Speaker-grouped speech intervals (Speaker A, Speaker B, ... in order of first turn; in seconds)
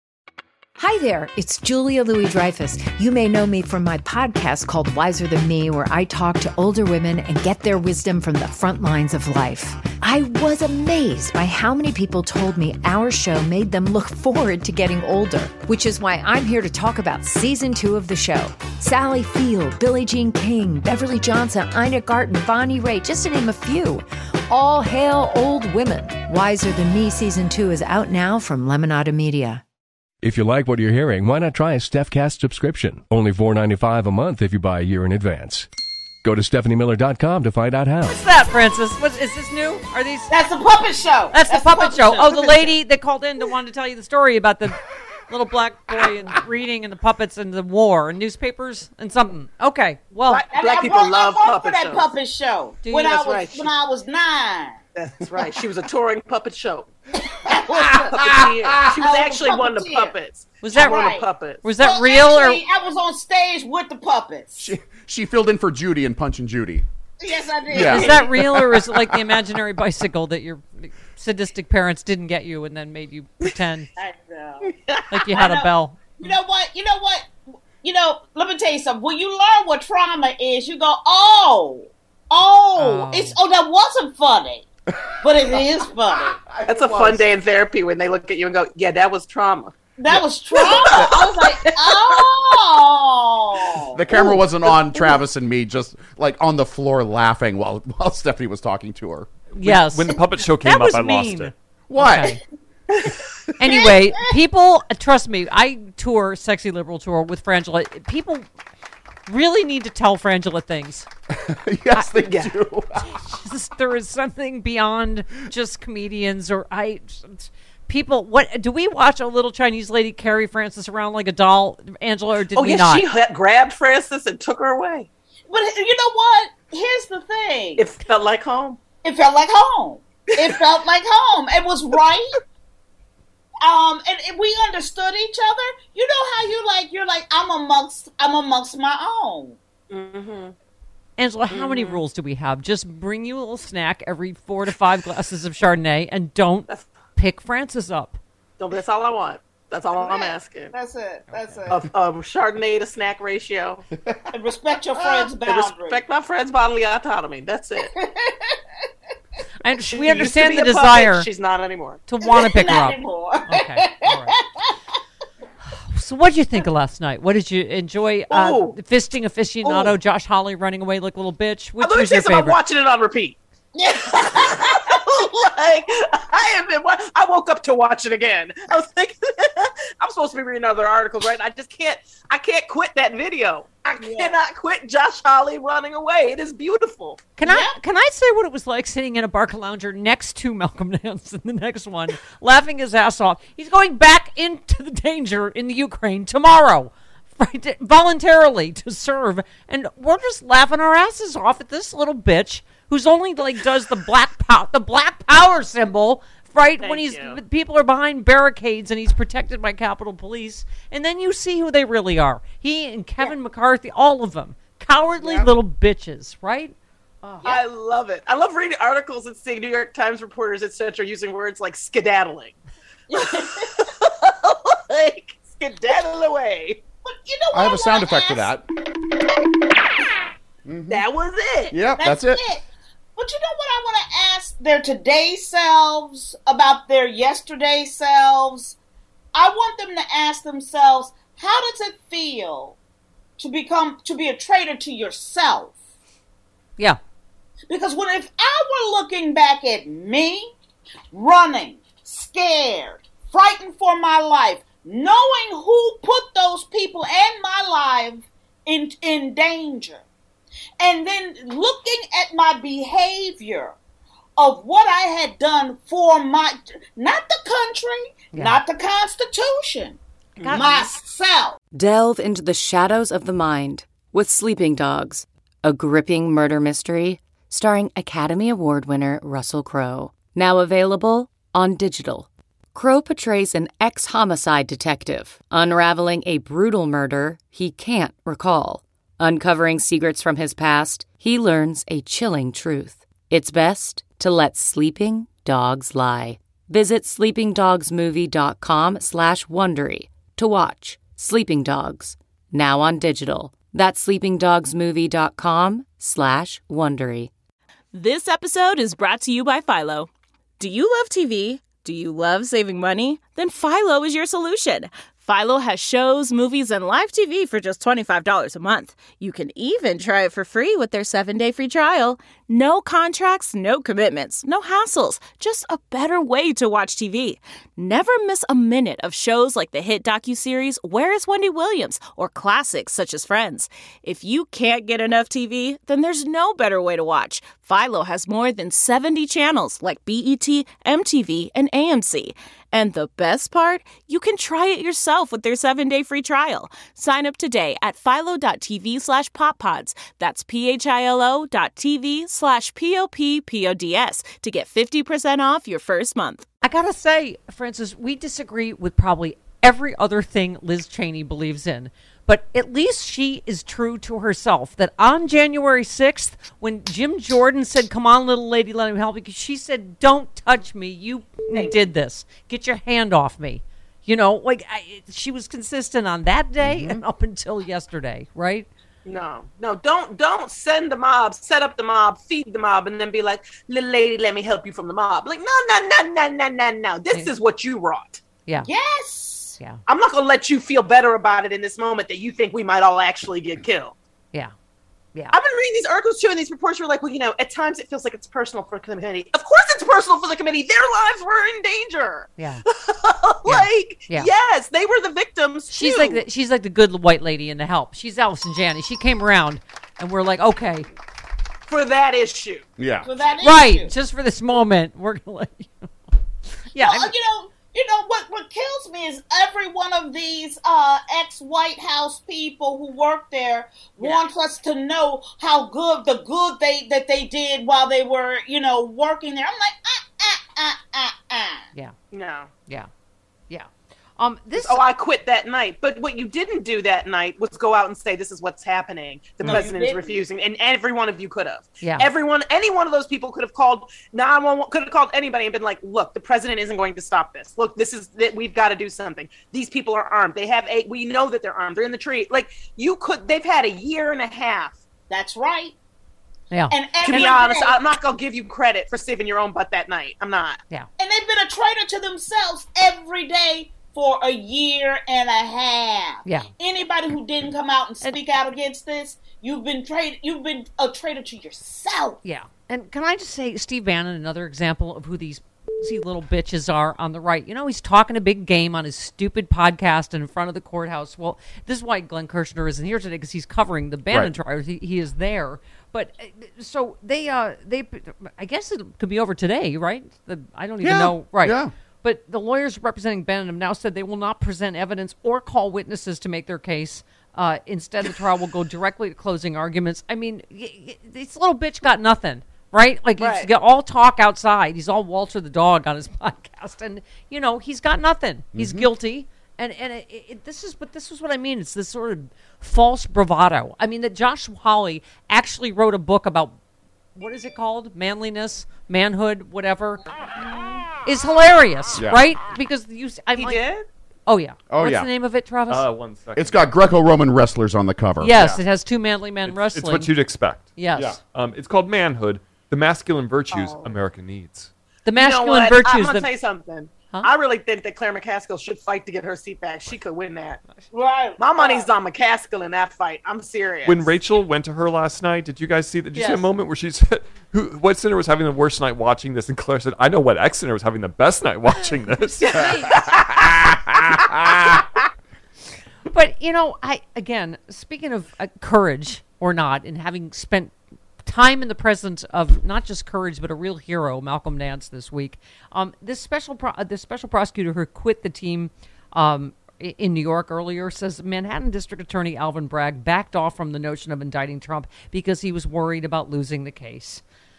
Speaker A: 0.8-29.6
Speaker B: 30.2-35.7, 36.2-38.2
Speaker C: 38.0-40.3, 41.3-50.5, 52.8-53.1, 60.6-61.1, 61.6-62.6, 67.9-73.9, 75.1-76.3, 82.8-83.4, 99.5-102.4, 103.6-108.5, 109.3-111.1, 111.9-112.2, 113.0-123.1, 141.2-148.2, 151.3-151.7, 159.6-161.3, 162.1-164.3, 165.8-172.6, 187.4-217.5, 268.3-268.6, 356.6-378.7, 402.4-402.6, 403.5-404.3, 405.7-410.9, 413.4-415.9, 416.7-417.1, 433.5-434.8, 441.8-442.1, 456.5-456.8, 466.2-466.5, 472.2-516.5, 517.2-520.0, 521.0-523.6, 524.3-525.9, 528.2-530.1, 530.8-531.2, 535.0-536.3, 546.1-546.5, 552.3-553.0, 556.1-577.2
Speaker D: 40.3-42.8, 50.5-54.8, 57.2-58.2, 59.0-60.2, 60.7-61.3, 61.8-64.7, 67.2-68.3, 74.0-74.7, 75.3-77.3, 77.8-84.7, 85.2-86.4, 90.0-95.2, 103.7-104.1, 125.5-127.9, 129.0-132.4, 133.6-139.6, 150.0-151.8, 154.3-156.0, 157.9-158.6, 162.2-164.7, 173.8-174.9, 184.0-184.4, 187.4-187.8, 223.1-223.8, 227.1-228.5, 232.0-232.6, 233.2-238.8, 239.3-242.8, 243.4-245.7, 247.7-250.5, 251.1-260.0, 260.8-263.8, 264.4-271.6, 388.6-389.6, 413.0-413.9, 416.8-431.7, 439.4-440.2, 455.1-455.8, 456.7-457.8, 461.0-472.2, 540.9-541.9
Speaker E: 50.3-52.1, 53.0-53.7, 55.0-56.9, 58.0-61.6, 74.7-75.2, 86.7-92.2, 112.2-112.5, 122.5-125.1, 127.8-128.8, 139.9-140.5, 141.5-142.0, 148.6-150.7, 151.7-153.8, 155.1-157.9, 159.9-162.0, 168.3-168.8, 169.6-170.0, 171.8-173.4, 174.1-187.2, 206.8-207.4, 215.2-215.5, 217.4-222.5, 223.3-226.8, 230.9-231.8, 270.4-270.9, 371.5-371.8, 379.1-388.2, 389.9-393.9, 395.3-406.2, 411.7-412.6, 432.1-432.5, 434.6-454.8, 457.0-460.6, 503.2-503.5, 523.4-523.9, 533.5-533.9, 535.1-540.6, 541.4-544.1, 552.4-554.2
Speaker F: 57.8-58.8, 64.6-66.9, 67.7-69.1, 86.2-87.2, 90.9-91.2, 93.9-99.3, 101.9-102.4, 111.3-113.1, 227.5-228.7, 230.7-231.1, 231.7-232.4, 376.6-377.0, 412.8-413.1, 490.8-491.7, 508.5-508.9, 522.0-522.2, 524.7-525.1, 526.4-528.4, 530.9-531.2
Speaker G: 99.6-101.5, 525.7-526.6, 529.5-534.7, 543.9-552.4
Speaker H: 271.7-307.3
Speaker I: 307.9-356.5